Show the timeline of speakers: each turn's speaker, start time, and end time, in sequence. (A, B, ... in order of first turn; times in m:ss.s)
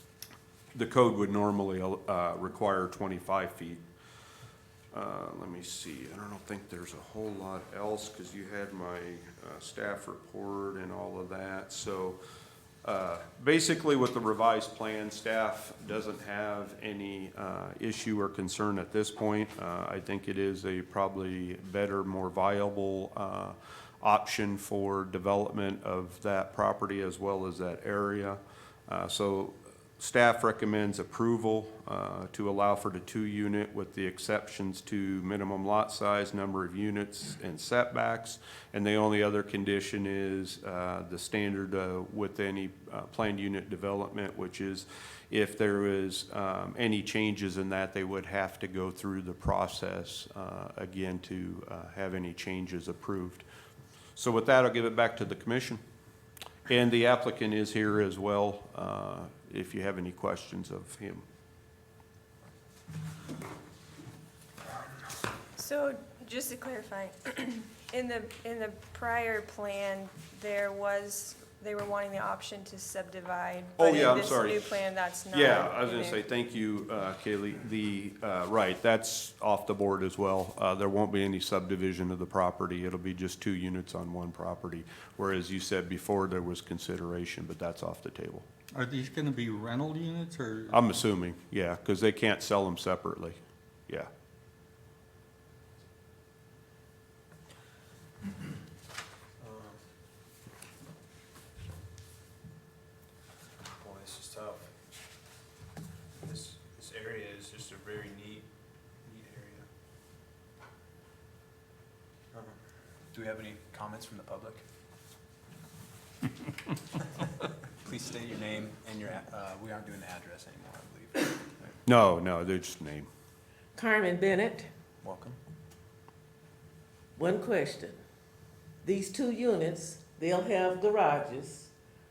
0:00.7-0:03.8 A
0:04.9-0:12.2 A
0:12.8-0:53.4 A
0:54.2-0:55.8 A
0:56.7-1:01.2 A
1:05.6-1:16.2 B
1:13.8-1:14.8 A
1:15.3-1:28.4 A
1:28.7-1:31.0 C
1:30.7-1:34.1 A
1:39.4-1:39.8 D
1:43.8-1:44.7 D
1:46.2-1:48.5 D
1:49.0-1:49.7 D
1:52.3-1:52.6 D
1:53.1-1:54.6 D
1:57.2-2:01.7 D
2:01.8-2:03.1 A
2:03.8-2:04.7 E
2:05.0-2:05.4 D
2:07.2-2:08.0 E
2:08.8-2:11.7 E